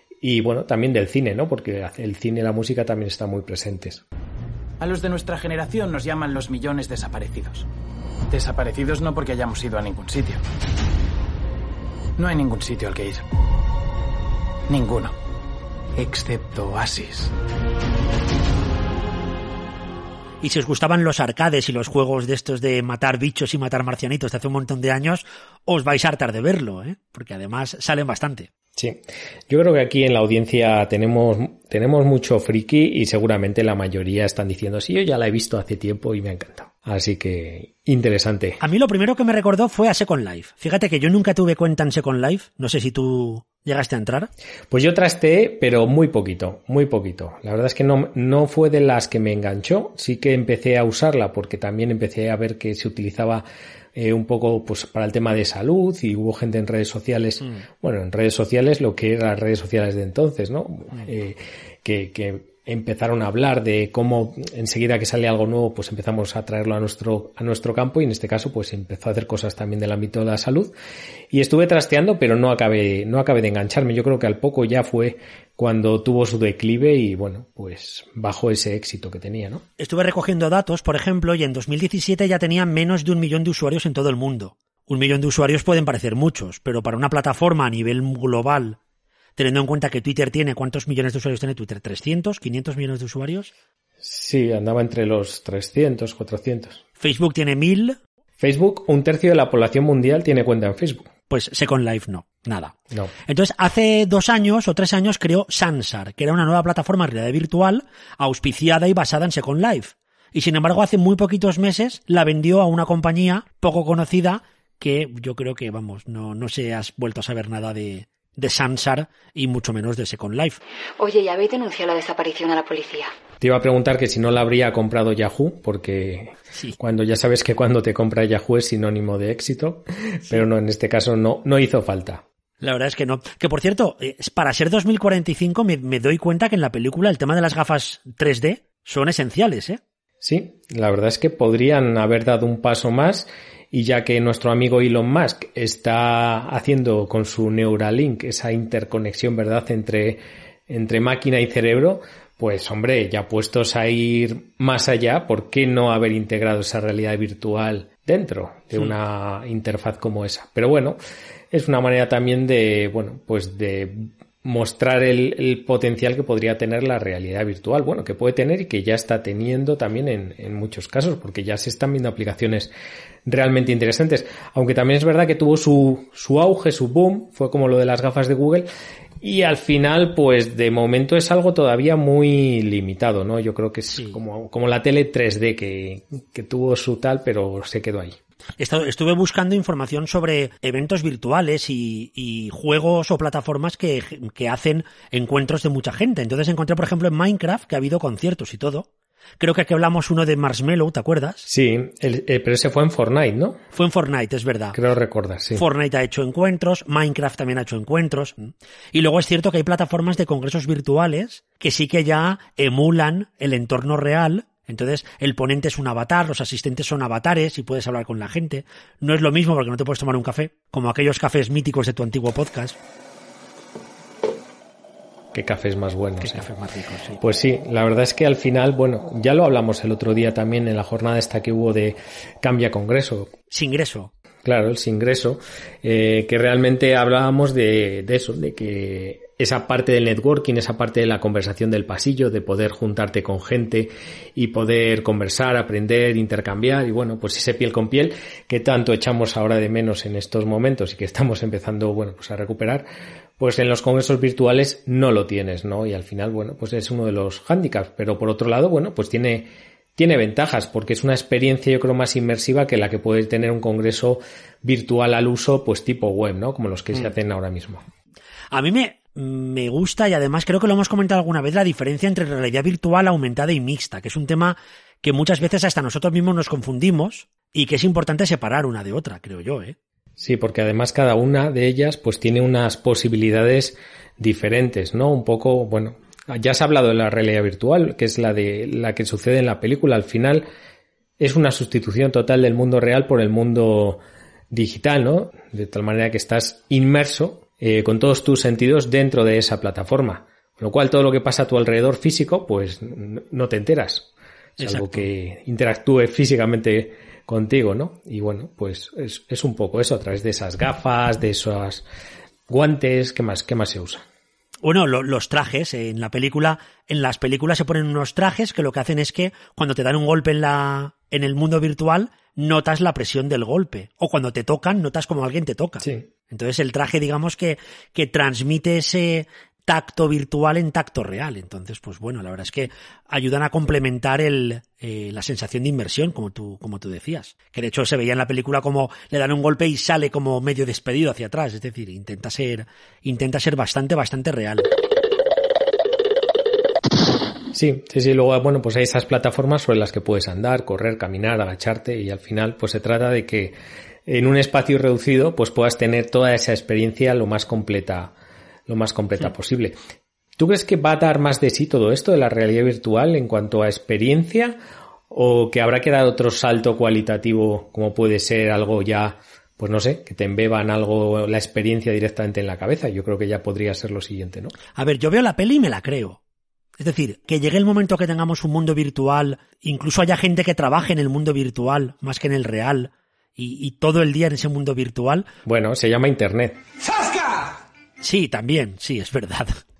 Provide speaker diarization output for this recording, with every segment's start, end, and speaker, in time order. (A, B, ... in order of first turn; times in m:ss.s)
0:00.2-0:04.0 A
0:04.8-0:07.6 B
0:08.3-0:10.4 B
0:12.2-0:13.2 B
0:14.7-0:15.1 B
0:16.0-0:17.3 B
0:20.4-0:28.5 C
0:28.8-0:38.6 A
0:38.6-0:44.3 C
0:44.7-1:10.7 A
1:11.3-1:19.6 A
1:19.8-1:28.8 C
1:29.4-1:33.5 C
1:34.0-1:36.8 A
1:37.0-1:38.0 C
1:38.4-1:41.1 A
1:41.3-2:00.6 C
2:01.0-2:03.1 D
2:03.4-2:12.2 A
2:12.6-2:19.8 C
2:20.2-2:41.0 A
2:41.5-2:52.7 A
2:53.2-2:58.7 A
2:59.2-3:08.2 A
3:08.6-3:18.9 C
3:19.4-3:21.5 C
3:21.5-3:23.6 A
3:23.7-3:24.8 C
3:24.7-3:25.6 A
3:25.5-3:42.8 C
3:45.3-3:46.5 A
3:46.2-3:47.2 C
3:47.2-3:53.3 A
3:53.5-3:54.1 C
3:54.4-4:12.8 A
4:13.4-4:27.8 A
4:28.5-4:39.8 C
4:40.2-4:50.4 A
4:51.2-5:11.8 A
5:04.6-5:05.0 C
5:12.5-5:14.0 A
5:14.6-5:44.7 C
5:47.5-5:53.5 A
5:54.0-5:58.1 A
5:58.7-5:59.8 A
6:00.4-6:04.6 A
6:05.1-6:14.5 A
6:14.7-6:16.2 C
6:16.8-6:25.3 C
6:25.4-6:26.6 A
6:28.0-6:29.5 C